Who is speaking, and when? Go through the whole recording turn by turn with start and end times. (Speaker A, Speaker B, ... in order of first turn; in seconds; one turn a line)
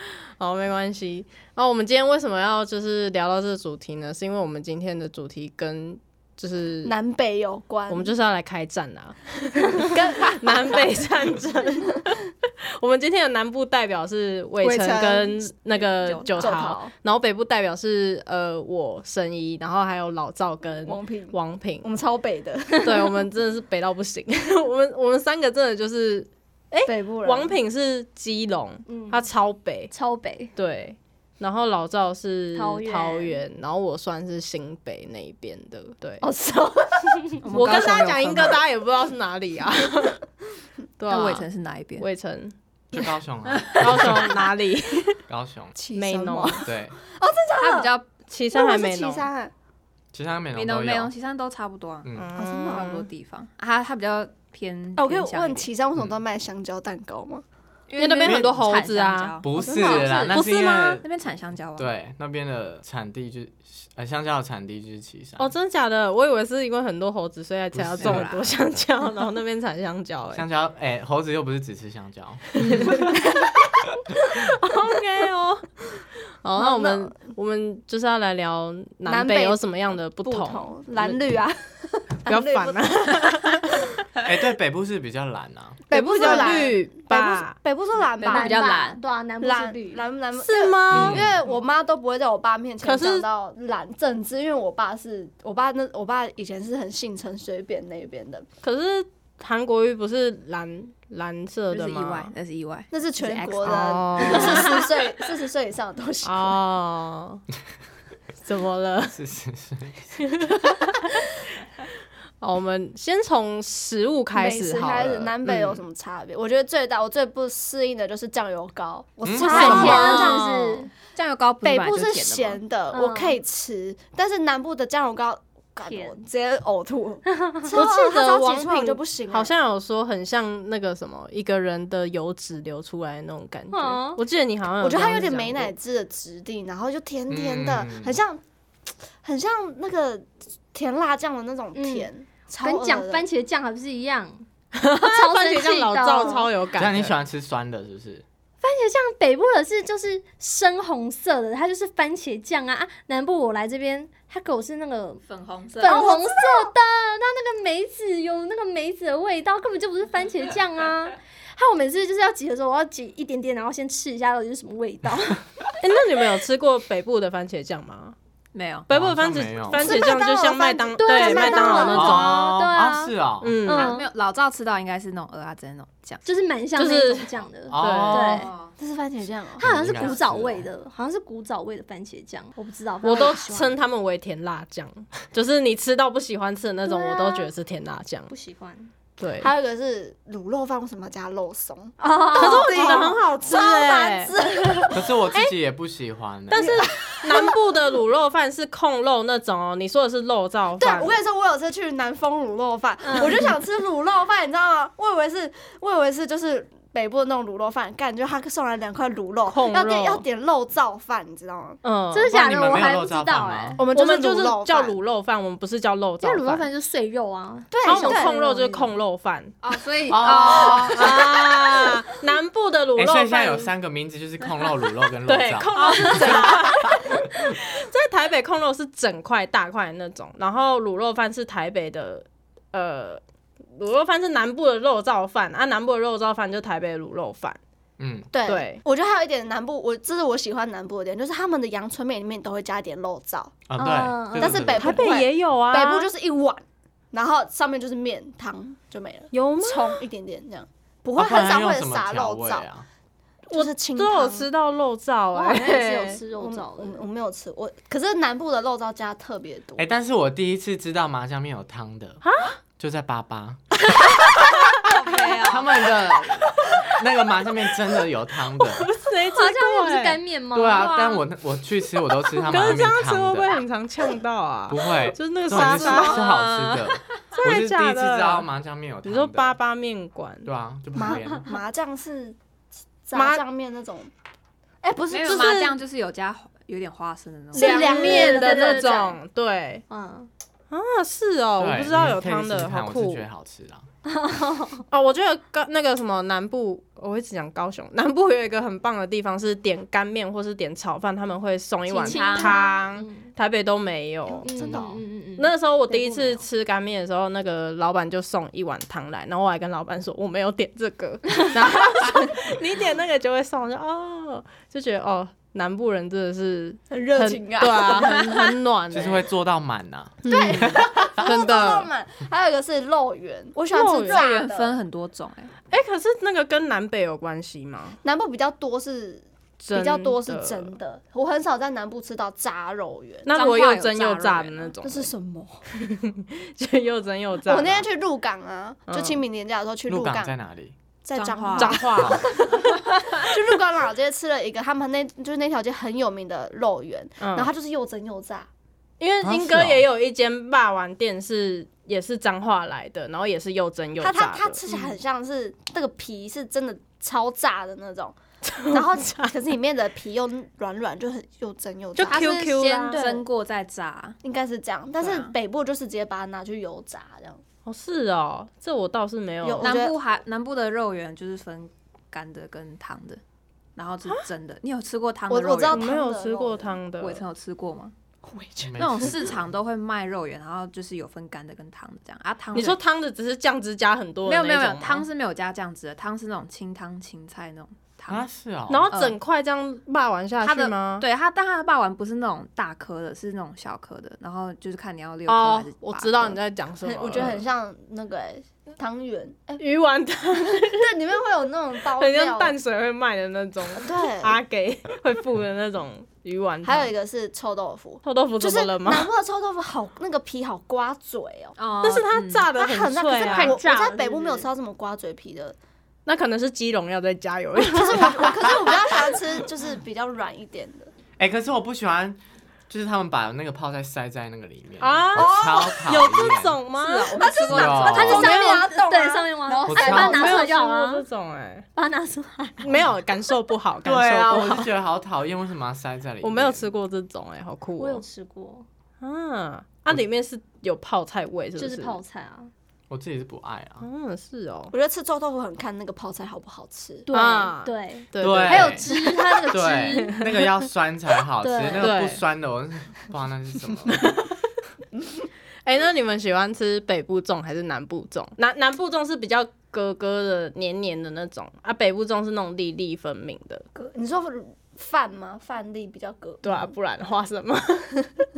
Speaker A: 0.1-7.0
Speaker B: 6.8-8.1
Speaker A: 7.9-21.9
Speaker B: 9.9-10.4
Speaker B: 14.6-15.4
Speaker C: 15.9-16.8
Speaker B: 16.3-16.9
Speaker B: 20.9-23.1
Speaker A: 22.8-29.9
Speaker B: 26.9-27.6
Speaker D: 28.9-29.3
Speaker D: 29.9-30.5
Speaker A: 30.6-36.3
Speaker D: 32.5-33.4
Speaker B: 36.2-37.4
Speaker C: 37.4-38.6
Speaker A: 37.5-40.2
Speaker A: 41.0-41.5
Speaker C: 41.1-42.1
Speaker A: 42.0-42.5
Speaker E: 42.9-44.3
Speaker A: 43.8-45.2
Speaker E: 45.3-45.8
Speaker B: 45.8-47.9
Speaker A: 45.9-46.7
Speaker E: 46.6-47.0
Speaker C: 47.6-48.1
Speaker A: 48.3-49.3
Speaker B: 48.5-49.5
Speaker E: 50.1-51.1
Speaker C: 50.5-55.7
Speaker A: 52.1-53.1
Speaker B: 52.4-52.9
Speaker B: 55.0-57.4
Speaker C: 57.9-61.9
Speaker A: 58.0-59.4
Speaker E: 58.2-58.5
Speaker E: 59.4-61.1
Speaker B: 59.6-61.0
Speaker E: 61.8-65.5
Speaker A: 65.4-70.5
Speaker E: 67.7-68.3
Speaker C: 68.0-68.5
Speaker E: 70.3-73.2
Speaker A: 72.6-73.0
Speaker A: 74.6-75.7
Speaker A: 76.4-81.2
Speaker B: 76.6-77.1
Speaker B: 79.1-83.8
Speaker A: 82.3-83.8
Speaker E: 84.2-85.8
Speaker A: 85.9-87.6
Speaker B: 85.9-88.7
Speaker C: 88.2-89.0
Speaker D: 88.2-90.0
Speaker B: 89.4-98.5
Speaker A: 90.4-91.2
Speaker E: 90.9-91.4
Speaker A: 92.8-93.3
Speaker A: 98.6-102.3
Speaker C: 101.7-105.1
Speaker B: 102.9-106.6
Speaker A: 103.6-104.7
Speaker A: 106.2-107.4
Speaker A: 108.4-109.2
Speaker E: 109.1-110.2
Speaker A: 110.2-111.0
Speaker A: 112.4-115.3
Speaker B: 114.3-120.8
Speaker E: 115.4-115.8
Speaker E: 119.2-120.2
Speaker D: 119.4-120.9
Speaker A: 119.4-120.5
Speaker C: 121.1-122.6
Speaker B: 121.6-129.5
Speaker D: 122.9-123.4
Speaker C: 125.9-126.1
Speaker D: 127.3-127.7
Speaker A: 127.7-135.7
Speaker D: 133.7-134.2
Speaker B: 134.8-138.4
Speaker E: 137.3-138.2
Speaker B: 139.2-143.3
Speaker D: 141.7-146.5
Speaker A: 144.8-147.2
Speaker E: 146.7-148.2
Speaker D: 148.6-155.2
Speaker C: 155.3-156.0
Speaker D: 155.8-165.4
Speaker B: 155.8-156.7
Speaker A: 165.8-168.2
Speaker C: 168.5-168.9
Speaker A: 168.9-172.5
Speaker E: 168.9-170.0
Speaker D: 169.7-173.1
Speaker B: 171.1-172.2
Speaker E: 171.8-173.6
Speaker A: 173.4-173.9
Speaker D: 173.7-174.1
Speaker C: 173.7-176.4
Speaker D: 176.2-178.5
Speaker A: 176.8-178.5
Speaker E: 177.7-178.5
Speaker C: 178.3-178.7
Speaker B: 178.8-179.6
Speaker D: 179.6-183.8
Speaker E: 179.6-180.7
Speaker A: 183.0-188.3
Speaker D: 186.8-187.5
Speaker D: 188.3-188.9
Speaker A: 189.2-189.5
Speaker B: 189.4-195.1
Speaker D: 192.0-193.1
Speaker A: 192.3-194.3
Speaker E: 194.9-196.9
Speaker A: 196.5-201.1
Speaker B: 196.6-197.7
Speaker B: 200.8-211.8
Speaker D: 203.0-203.5
Speaker A: 203.2-203.5
Speaker A: 209.5-210.2
Speaker A: 211.8-212.3
Speaker D: 212.1-213.8
Speaker E: 212.3-213.8
Speaker A: 213.8-216.7
Speaker B: 213.8-215.0
Speaker D: 216.2-218.4
Speaker B: 217.7-218.9
Speaker A: 217.8-219.5
Speaker C: 219.6-221.4
Speaker E: 220.1-221.3
Speaker A: 220.2-223.7
Speaker E: 223.0-226.2
Speaker A: 225.2-233.2
Speaker D: 225.7-227.0
Speaker A: 233.8-237.6
Speaker E: 238.0-238.3
Speaker B: 238.3-243.6
Speaker A: 238.5-238.8
Speaker E: 243.7-245.1
Speaker D: 243.8-244.7
Speaker B: 244.4-252.7
Speaker A: 244.7-246.1
Speaker A: 249.3-250.0
Speaker E: 251.2-252.9
Speaker A: 253.5-256.2
Speaker B: 253.5-254.5
Speaker B: 255.4-259.9
Speaker D: 255.4-257.0
Speaker E: 259.8-262.2
Speaker A: 262.2-262.6
Speaker E: 262.8-264.2
Speaker C: 264.8-265.8
Speaker E: 265.4-268.9
Speaker A: 268.6-270.2
Speaker D: 269.2-271.3
Speaker E: 270.5-273.6
Speaker A: 272.4-276.2
Speaker E: 274.7-279.6
Speaker B: 275.6-276.1
Speaker C: 275.8-277.0
Speaker A: 277.3-278.5
Speaker A: 279.0-280.5
Speaker E: 280.4-281.5
Speaker B: 281.0-282.4
Speaker B: 283.1-284.1
Speaker A: 283.1-283.4
Speaker B: 284.8-285.7
Speaker C: 285.1-288.1
Speaker A: 285.1-285.8
Speaker B: 287.5-289.0
Speaker A: 287.5-289.9
Speaker D: 287.6-289.2
Speaker D: 289.9-290.3
Speaker A: 290.7-293.2
Speaker E: 291.6-293.9
Speaker D: 294.1-294.9
Speaker A: 294.9-304.9
Speaker D: 301.9-303.3
Speaker C: 302.0-302.6
Speaker B: 304.3-305.0
Speaker D: 304.4-306.4
Speaker A: 305.4-319.3
Speaker B: 316.9-318.4
Speaker E: 318.9-321.1
Speaker A: 320.2-321.9
Speaker B: 320.3-324.8
Speaker A: 323.7-324.2
Speaker C: 324.0-325.5
Speaker A: 325.7-328.0
Speaker B: 328.0-333.3
Speaker A: 329.6-330.8
Speaker A: 333.2-335.1
Speaker C: 333.3-334.8
Speaker B: 334.8-335.6
Speaker A: 335.7-337.9
Speaker B: 337.5-340.3
Speaker A: 338.9-339.2
Speaker E: 339.9-340.8
Speaker B: 341.0-348.5
Speaker C: 341.1-341.9
Speaker A: 341.5-342.3
Speaker E: 342.0-342.3
Speaker A: 347.2-347.5
Speaker A: 349.0-354.6
Speaker E: 349.2-349.9
Speaker B: 354.0-358.2
Speaker A: 358.4-359.3
Speaker B: 358.7-363.2
Speaker A: 361.9-363.1
Speaker C: 362.0-364.2
Speaker B: 364.2-367.4
Speaker C: 365.0-365.3
Speaker A: 367.7-369.8
Speaker B: 369.4-370.0
Speaker C: 369.6-373.2
Speaker C: 373.8-375.9
Speaker B: 375.3-376.8
Speaker A: 375.7-377.2
Speaker C: 377.0-377.9
Speaker B: 378.2-379.3
Speaker E: 378.6-379.4
Speaker C: 378.8-382.8
Speaker A: 382.5-385.1
Speaker C: 384.2-388.3
Speaker E: 388.1-388.9
Speaker A: 388.7-391.1
Speaker C: 388.9-389.2
Speaker C: 390.4-396.4
Speaker A: 395.3-397.4
Speaker B: 396.8-399.6
Speaker A: 399.6-400.9
Speaker B: 400.5-402.6
Speaker A: 402.0-406.9
Speaker B: 403.7-404.4
Speaker B: 406.6-411.6
Speaker A: 408.0-409.1
Speaker C: 411.6-412.5
Speaker A: 411.8-413.6
Speaker B: 412.6-415.6
Speaker D: 413.2-414.5
Speaker A: 416.1-418.5
Speaker B: 417.6-420.9
Speaker E: 418.0-418.8
Speaker E: 421.2-426.6
Speaker A: 424.8-427.2
Speaker B: 425.2-425.8
Speaker C: 426.8-428.3
Speaker B: 427.1-430.5
Speaker E: 427.5-428.2
Speaker D: 427.8-431.1
Speaker A: 428.1-428.6
Speaker E: 429.6-430.2
Speaker A: 429.9-431.7
Speaker D: 431.8-432.9
Speaker A: 432.6-434.7
Speaker E: 433.8-436.7
Speaker A: 436.2-438.0
Speaker D: 437.8-438.7
Speaker A: 439.0-442.0
Speaker D: 441.6-442.5
Speaker E: 442.9-443.9
Speaker A: 443.8-444.7
Speaker B: 444.7-447.1
Speaker D: 447.1-450.3
Speaker A: 447.1-450.3
Speaker E: 448.2-448.9
Speaker E: 449.5-454.1
Speaker D: 451.4-452.0
Speaker A: 451.8-452.2
Speaker A: 454.0-454.3
Speaker A: 455.6-463.7
Speaker B: 463.8-466.7
Speaker A: 466.4-468.1